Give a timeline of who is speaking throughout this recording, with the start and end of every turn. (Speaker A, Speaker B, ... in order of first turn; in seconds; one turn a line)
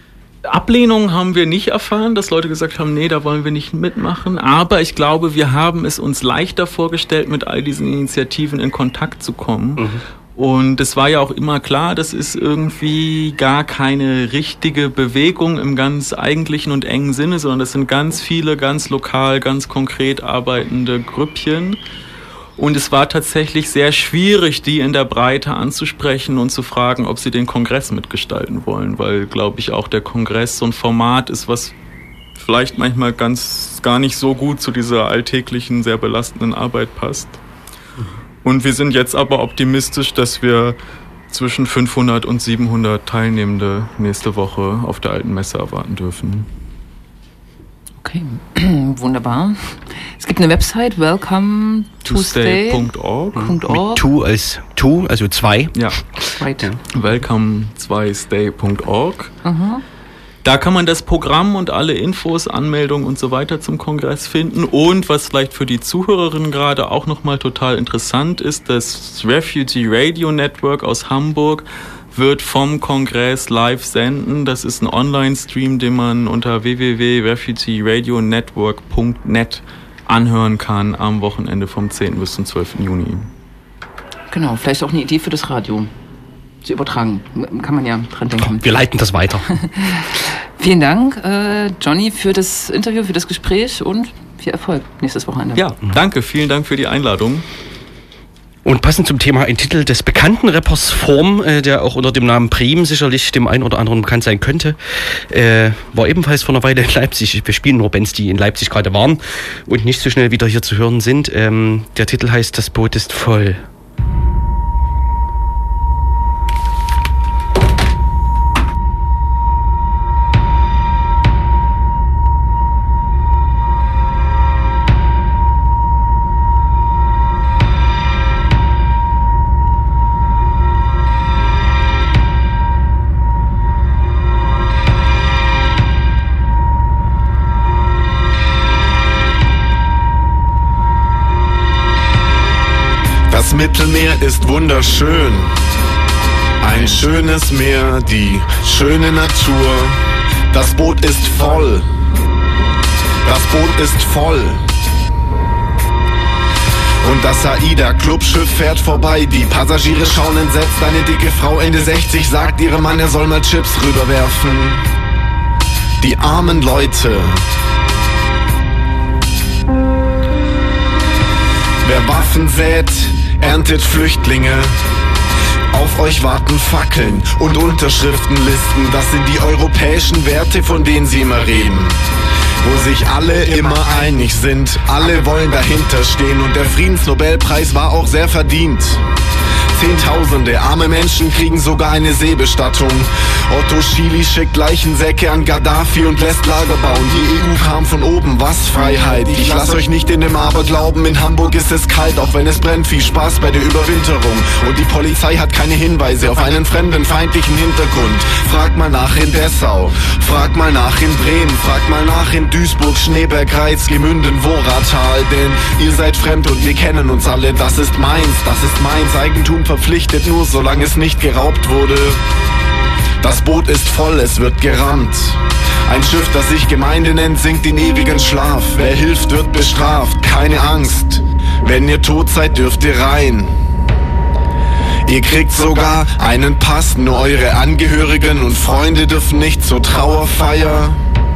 Speaker A: 0.4-21.8
Speaker B: 9.8-10.0
Speaker A: 22.6-31.7
Speaker A: 32.3-37.4
Speaker A: 38.4-40.8
Speaker A: 41.3-46.5
Speaker C: 48.0-54.0
Speaker A: 52.0-53.5
Speaker B: 53.4-56.8
Speaker A: 55.7-56.0
Speaker C: 56.4-56.7
Speaker A: 56.9-59.3
Speaker C: 59.4-59.8
Speaker A: 60.4-83.3
Speaker C: 84.3-85.9
Speaker C: 86.6-88.8
Speaker B: 88.4-89.5
Speaker C: 89.6-95.6
Speaker A: 95.5-97.4
Speaker B: 98.6-113.6
Speaker D: 143.3-145.5
Speaker D: 146.6-150.0
Speaker D: 150.5-151.9
Speaker D: 153.2-154.6
Speaker D: 157.0-164.8
Speaker D: 166.0-167.4
Speaker D: 171.8-174.7
Speaker D: 175.7-182.0
Speaker D: 182.6-189.0
Speaker D: 189.7-222.2
Speaker D: 223.2-233.5
Speaker D: 235.1-241.0